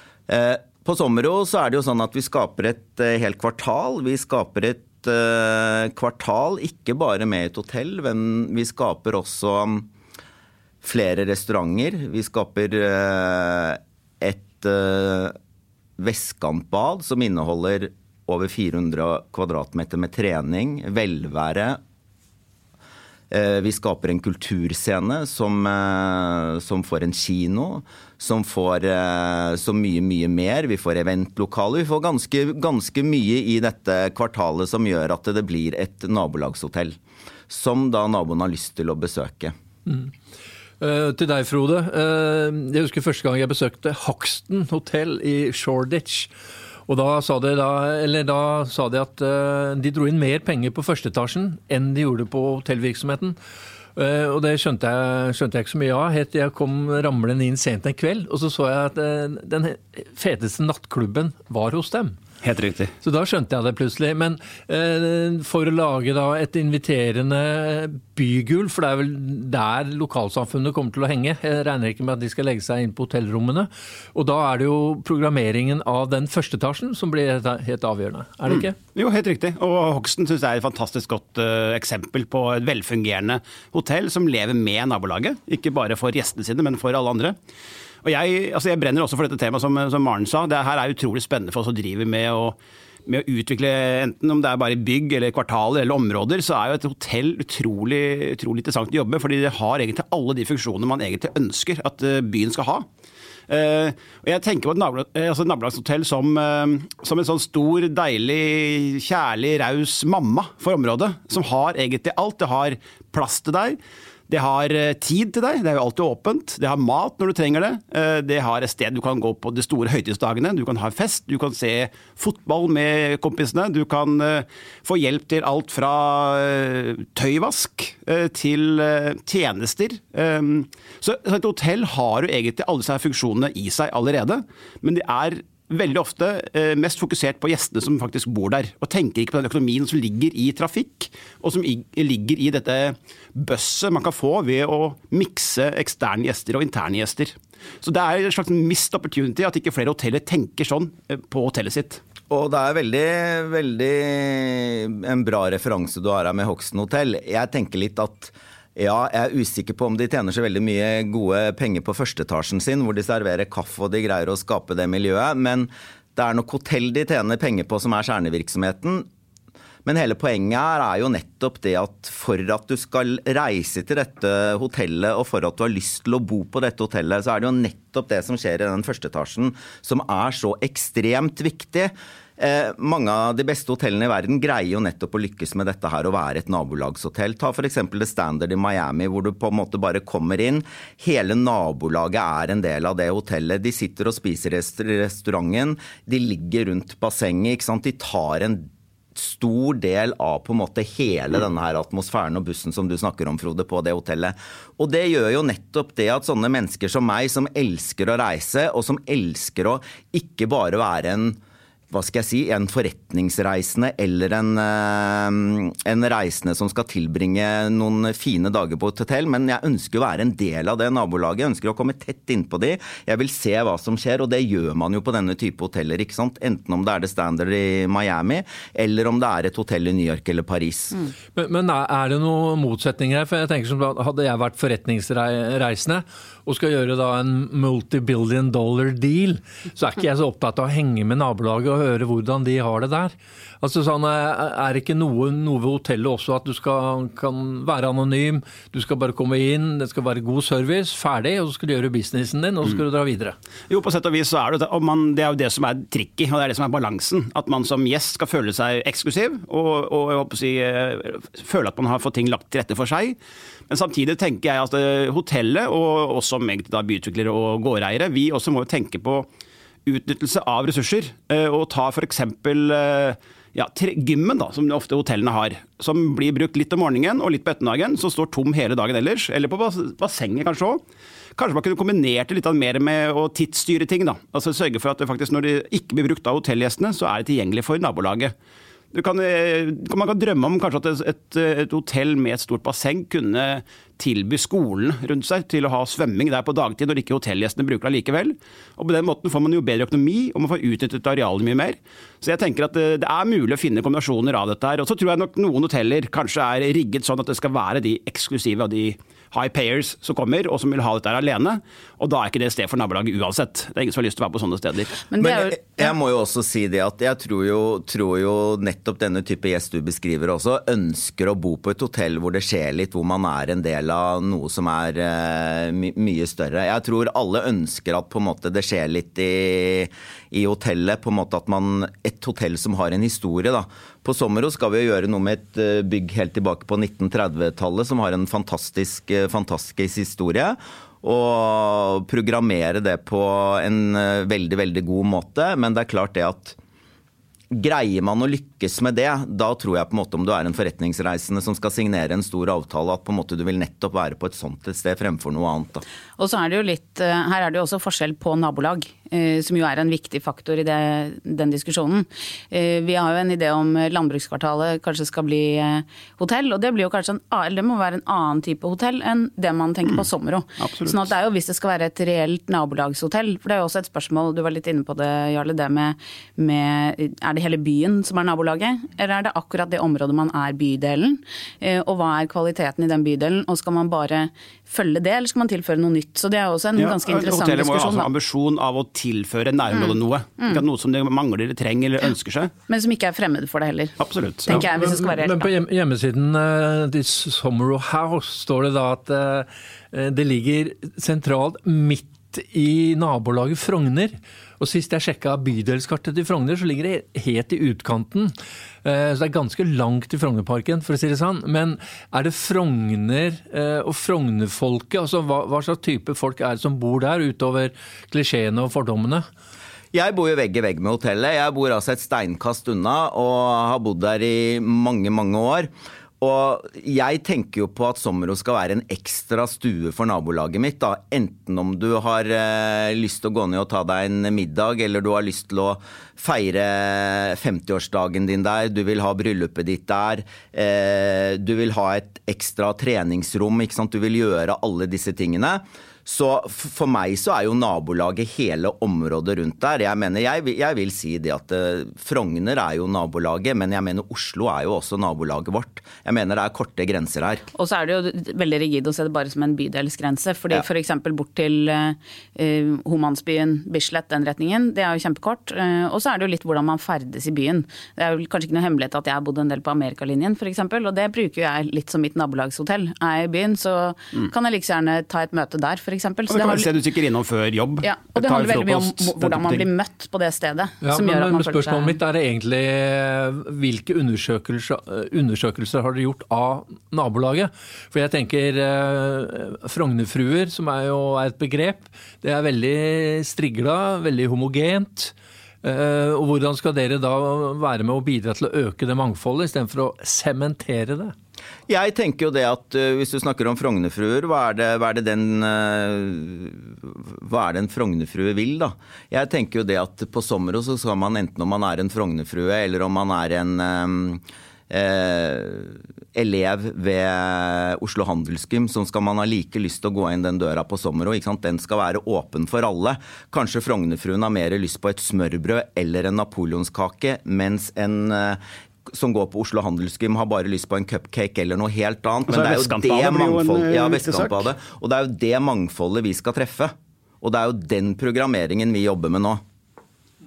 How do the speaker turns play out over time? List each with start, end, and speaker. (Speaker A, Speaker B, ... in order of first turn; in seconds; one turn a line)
Speaker A: 0.3-9.9
Speaker A: 10.8-15.3
Speaker A: 16.0-21.8
Speaker A: 23.3-37.0
Speaker A: 37.5-39.5
Speaker B: 39.9-40.1
Speaker B: 40.8-46.3
Speaker B: 46.9-53.4
Speaker B: 54.0-62.2
Speaker C: 62.4-62.9
Speaker B: 63.0-78.7
Speaker C: 78.5-87.3
Speaker C: 88.0-102.8
Speaker C: 103.5-113.8
Speaker C: 114.3-152.0
Speaker A: 152.3-169.1
Speaker A: 169.8-211.4
Speaker A: 211.9-231.1
Speaker B: 231.3-253.3
Speaker C: 253.7-263.2
Speaker C: 263.7-269.3
Speaker C: 269.9-280.8
Speaker C: 281.4-288.3
Speaker C: 288.9-315.0
Speaker D: 315.1-315.9
Speaker A: 315.2-346.6
Speaker A: 347.5-355.8
Speaker D: 356.2-388.1
Speaker C: 370.6-371.1
Speaker C: 386.8-392.5
Speaker D: 392.7-395.5
Speaker C: 394.0-394.6
Speaker B: 394.5-419.2
Speaker A: 419.9-457.4
Speaker D: 457.5-476.7
Speaker C: 476.3-479.7
Speaker D: 477.8-482.0
Speaker B: 480.8-501.1
Speaker A: 501.7-539.4
Speaker C: 532.3-534.5